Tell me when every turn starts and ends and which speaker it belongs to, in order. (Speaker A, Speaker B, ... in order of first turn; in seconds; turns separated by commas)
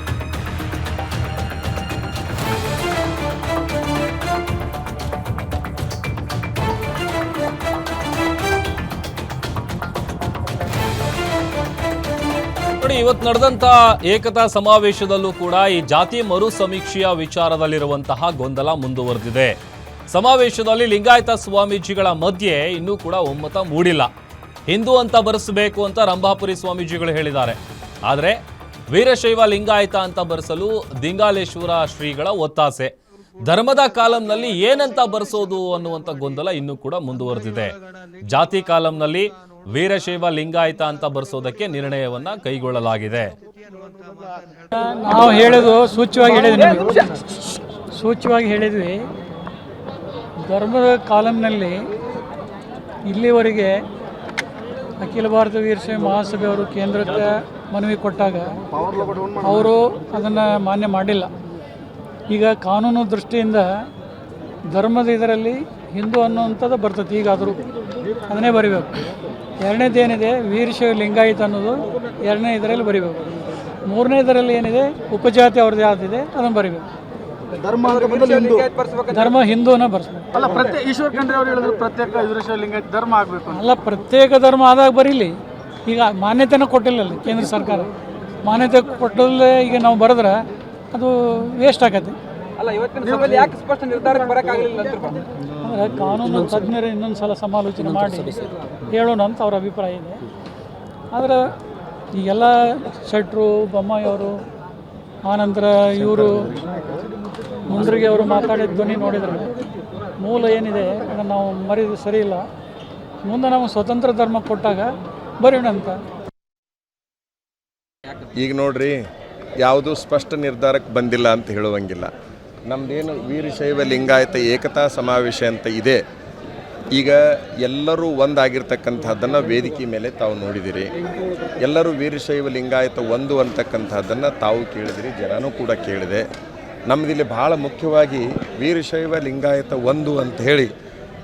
Speaker A: 12.8-19.6, Speaker A: 20.1-24.1, Speaker A: 24.7-32.9, Speaker A: 33.5-37.7, Speaker A: 38.3-43.3, Speaker B: 44.7-47.1, Speaker B: 48.0-49.0, Speaker B: 50.4-51.8, Speaker B: 53.1-53.8, Speaker B: 55.0-58.5, Speaker B: 59.4-61.3, Speaker B: 62.3-63.7, Speaker B: 64.7-67.6, Speaker B: 68.3-69.0, Speaker B: 69.6-73.2, Speaker B: 73.9-76.8, Speaker C: 77.7-78.7, Speaker B: 79.1-80.5, Speaker C: 80.5-83.6, Speaker B: 83.5-85.4, Speaker B: 85.9-87.9, Speaker B: 88.5-90.4, Speaker B: 90.9-92.2, Speaker D: 92.8-95.0, Speaker C: 93.0-93.4, Speaker B: 95.6-100.2, Speaker B: 101.1-101.5, Speaker B: 102.2-104.3, Speaker B: 105.3-106.6, Speaker B: 107.7-109.5, Speaker B: 110.2-112.4, Speaker B: 113.2-116.0, Speaker E: 118.4-119.0, Speaker E: 119.6-122.1, Speaker E: 122.7-126.0, Speaker E: 126.9-130.9, Speaker E: 131.6-136.2, Speaker E: 136.9-140.7